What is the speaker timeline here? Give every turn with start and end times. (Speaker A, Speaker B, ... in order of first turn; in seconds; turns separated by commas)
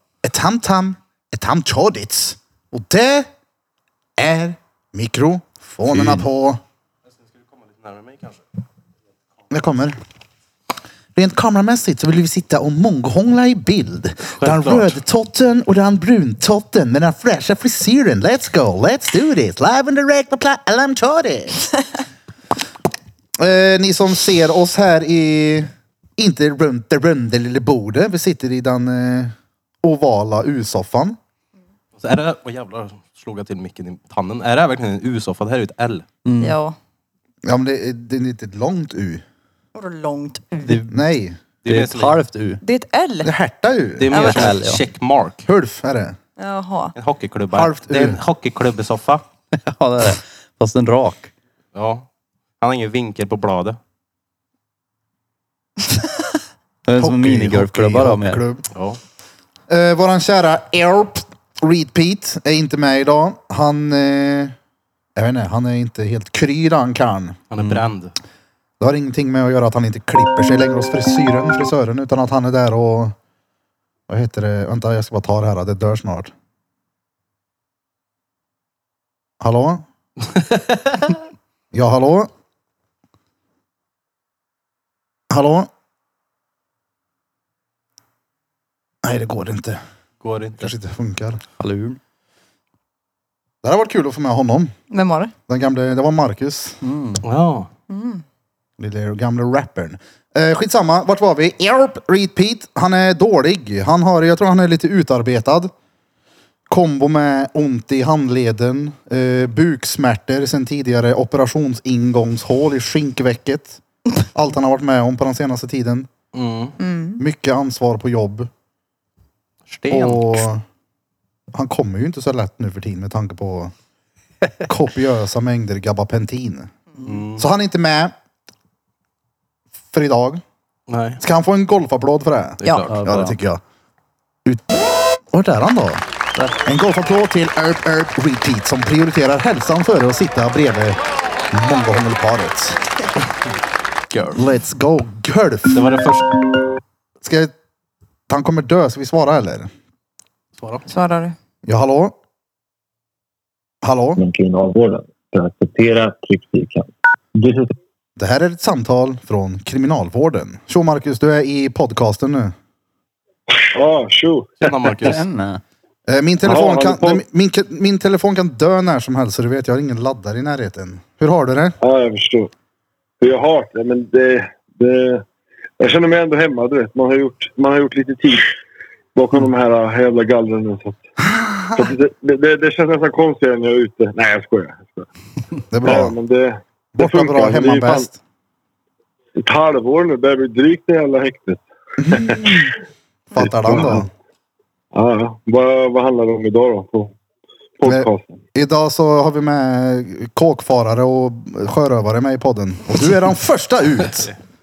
Speaker A: 0.2-3.3, Speaker A: 4.2-6.6, Speaker B: 5.9-6.2, Speaker B: 7.6-8.4, Speaker A: 9.5-9.9, Speaker A: 11.1-21.6, Speaker B: 14.4-14.9, Speaker A: 23.4-31.2, Speaker B: 32.0-36.0, Speaker C: 36.2-36.6, Speaker D: 36.4-36.8, Speaker A: 37.4-39.2, Speaker D: 39.8-40.8, Speaker C: 40.6-40.9, Speaker A: 40.9-41.4, Speaker B: 41.6-42.2, Speaker C: 41.6-42.6, Speaker D: 42.6-43.3, Speaker A: 43.2-44.1, Speaker B: 44.0-45.5, Speaker D: 44.1-44.5, Speaker C: 44.1-44.8, Speaker A: 45.5-46.2, Speaker D: 46.4-46.9, Speaker B: 47.0-49.2, Speaker A: 47.5-48.2, Speaker C: 49.6-51.3, Speaker B: 51.7-52.0, Speaker B: 52.6-53.8, Speaker C: 56.9-58.4, Speaker A: 57.0-58.6, Speaker B: 58.7-59.0, Speaker A: 59.7-64.5, Speaker A: 65.2-67.4, Speaker B: 67.5-68.1, Speaker A: 68.8-73.1, Speaker A: 74.1-76.3, Speaker A: 79.4-79.8, Speaker A: 81.7-82.3, Speaker A: 85.3-85.7, Speaker A: 89.0-89.8, Speaker B: 90.2-90.7, Speaker A: 90.6-91.4, Speaker C: 91.6-92.0, Speaker A: 93.6-94.7, Speaker D: 94.9-95.3, Speaker A: 95.5-96.8, Speaker C: 96.8-97.2, Speaker B: 97.2-97.7, Speaker D: 97.9-98.2, Speaker A: 98.8-105.7, Speaker A: 106.7-113.8, Speaker A: 114.3-116.1, Speaker B: 116.3-116.8, Speaker D: 116.8-117.2, Speaker A: 117.2-118.5, Speaker B: 119.7-120.4, Speaker A: 119.9-120.6, Speaker A: 121.5-123.7, Speaker A: 124.7-126.7, Speaker B: 127.0-127.4, Speaker A: 127.4-128.1, Speaker A: 129.9-130.4, Speaker B: 130.9-131.2, Speaker A: 131.2-133.6, Speaker B: 132.6-133.2, Speaker C: 132.8-133.4, Speaker A: 134.4-134.7, Speaker A: 135.3-136.0, Speaker A: 136.6-141.0, Speaker A: 141.5-142.8, Speaker B: 144.1-144.4, Speaker A: 144.3-145.9, Speaker B: 145.7-146.3, Speaker A: 147.2-147.5, Speaker A: 148.3-149.7, Speaker B: 150.6-150.8, Speaker D: 150.9-151.3, Speaker A: 151.6-152.1, Speaker A: 153.8-154.2, Speaker E: 154.2-157.7, Speaker A: 158.2-162.5, Speaker F: 163.7-164.7, Speaker B: 164.6-165.2, Speaker C: 165.0-165.6, Speaker A: 166.1-171.8, Speaker F: 166.4-167.2, Speaker F: 171.8-172.5, Speaker F: 173.2-175.2, Speaker F: 175.8-178.5, Speaker F: 179.1-181.0, Speaker A: 181.2-181.9, Speaker F: 181.7-185.1, Speaker A: 185.7-186.1, Speaker F: 185.8-188.1, Speaker A: 186.9-188.2, Speaker F: 189.4-192.7, Speaker A: 192.0-192.7, Speaker A: 193.3-194.1, Speaker F: 193.3-194.1, Speaker F: 194.9-197.1, Speaker F: 197.8-198.4, Speaker A: 197.8-204.3